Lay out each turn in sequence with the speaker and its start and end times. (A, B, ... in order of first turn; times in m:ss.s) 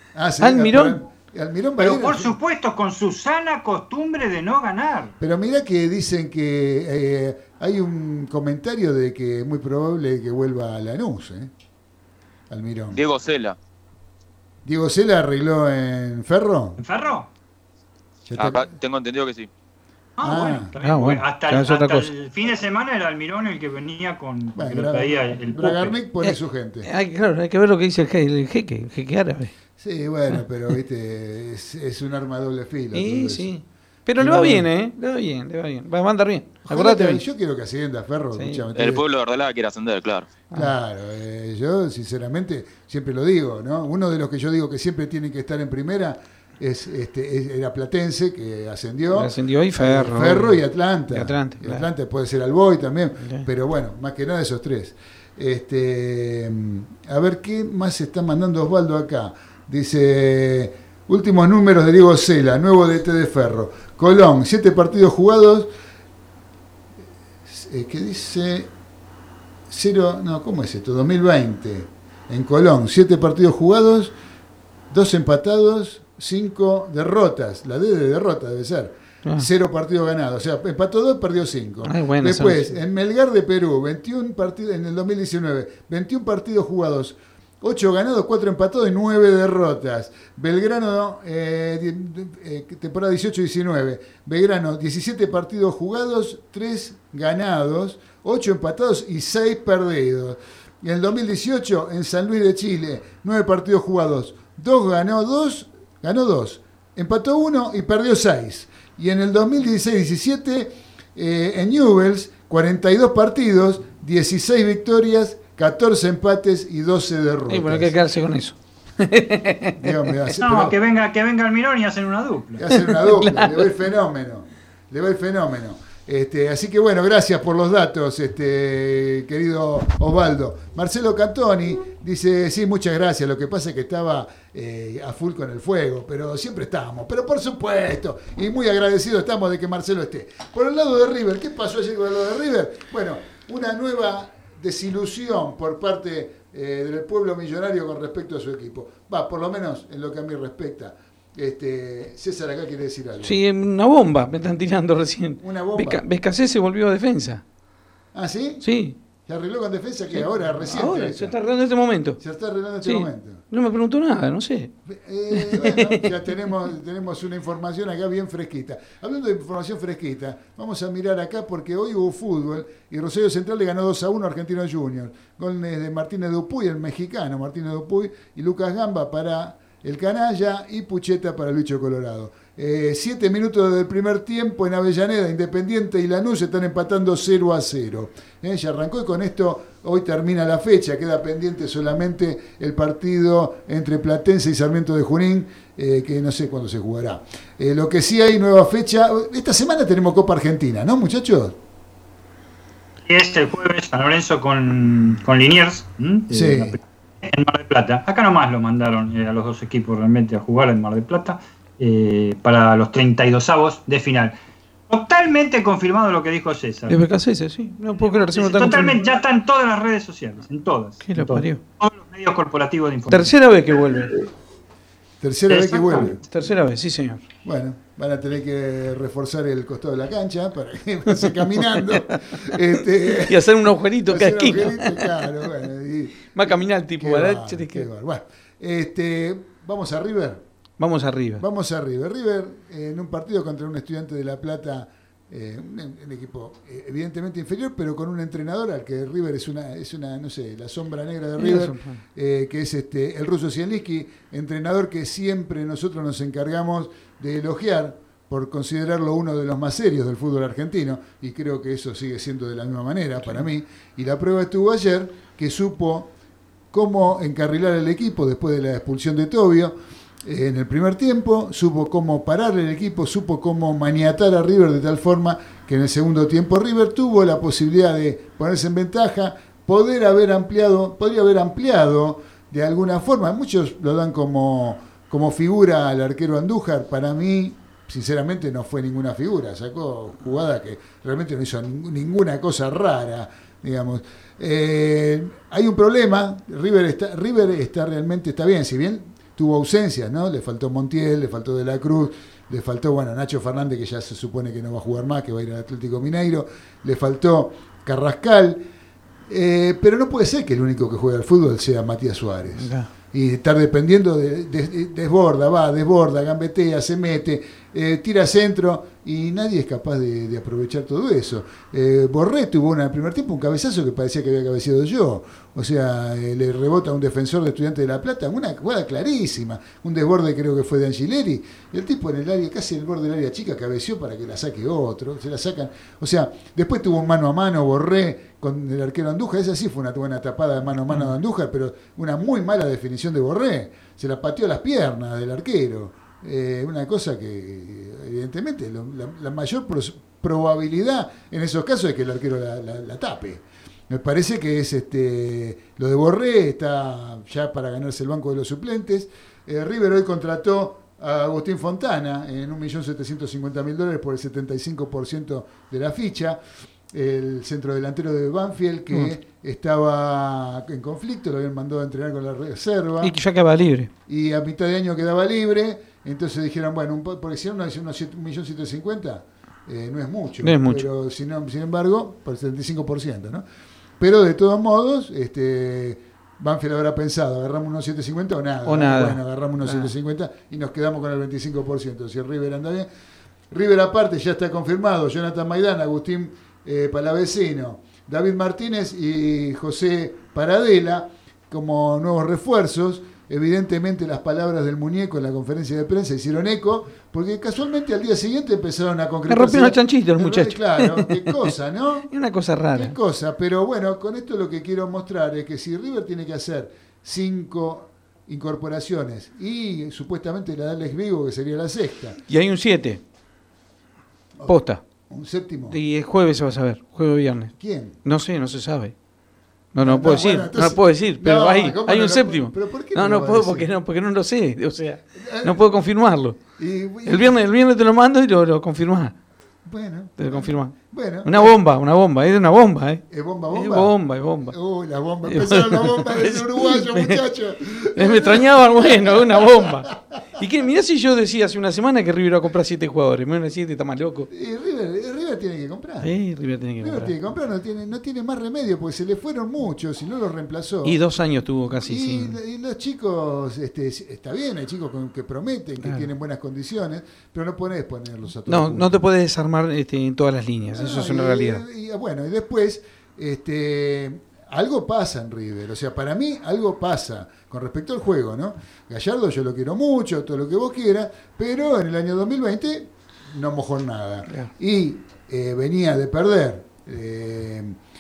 0:00.1-0:02.3 A
0:00.4-0:01.0 B
0:01.8-0:05.2 C
0:05.2-0:11.5 A
0:12.5-0:13.0 A
0:12.9-0:13.6 D
0:14.6-0:16.8 A
0:16.8-0:17.3 C
0:18.3-0:18.7 A
0:18.4-0:19.5 D
0:20.2-0:26.0 C
0:20.2-0:20.7 A
0:20.8-0:22.1 B
0:24.6-0:26.9 A
0:26.2-0:29.5 B
0:29.8-0:33.5 A
0:32.9-0:37.2 B
0:34.2-0:34.7 A
0:36.7-0:39.0 A
0:38.4-0:38.6 B
0:38.7-0:40.3 D
0:40.5-1:05.7 A
0:49.1-0:51.9 B
0:53.2-0:53.5 B
1:07.5-1:08.7 A
1:09.7-1:14.1 A
1:14.9-1:58.0 A
1:21.8-1:22.7 B
1:57.5-1:59.9 B
1:59.8-2:00.8 A
2:00.4-2:02.6 C
2:02.6-2:33.4 A
2:02.7-2:03.7 B
2:33.2-2:37.4 B
2:35.4-2:36.0 A
2:38.1-2:38.7 A
2:38.6-2:39.0 B
2:39.2-2:41.4 A
2:40.1-2:42.2 B
2:42.2-2:43.4 A
2:42.8-2:44.7 B
2:44.9-3:21.6 A
2:45.3-2:46.1 B
3:23.0-3:34.4 C
3:26.3-3:26.8 A
3:34.9-3:37.0 C
3:36.9-3:39.0 B
3:38.0-3:43.4 C
3:41.0-3:41.6 B
3:43.1-3:44.2 B
3:45.2-3:46.2 A
3:45.5-3:46.2 C
3:46.3-3:47.2 B
3:47.4-4:00.4 A
3:51.1-3:52.5 B
3:53.1-3:55.5 B
3:56.3-3:57.9 B
4:00.8-4:01.4 B
4:01.4-4:26.1 A
4:11.4-4:12.0 B
4:26.7-5:08.6 A
5:09.3-6:06.4 A
5:12.6-5:12.9 B
6:06.9-6:13.2 A
6:13.0-6:13.9 B
6:14.1-6:23.5 A
6:20.4-6:20.9 B
6:24.0-6:32.9 A
6:28.6-6:29.9 B
6:33.5-6:52.1 A
6:49.3-6:51.5 B
6:52.1-6:53.0 B
6:52.7-7:02.2 A
7:02.3-7:03.0 B
7:04.4-7:05.8 A
7:04.5-7:04.8 B
7:05.7-7:07.5 B
7:07.6-7:08.0 A
7:08.0-7:08.9 B
7:09.7-7:16.4 B
7:09.8-7:13.7 A
7:15.1-7:15.7 A
7:16.6-7:17.4 A
7:17.0-7:19.2 B
7:19.6-7:21.6 A
7:20.2-7:24.6 B
7:23.1-7:24.0 A
7:24.5-7:30.2 A
7:25.2-7:27.2 B
7:27.9-7:34.3 B
7:34.3-7:36.1 A
7:36.0-7:37.1 B
7:36.8-7:41.0 A
7:40.8-7:42.4 B
7:41.8-7:49.0 A
7:48.5-7:51.6 B
7:50.8-8:07.8 A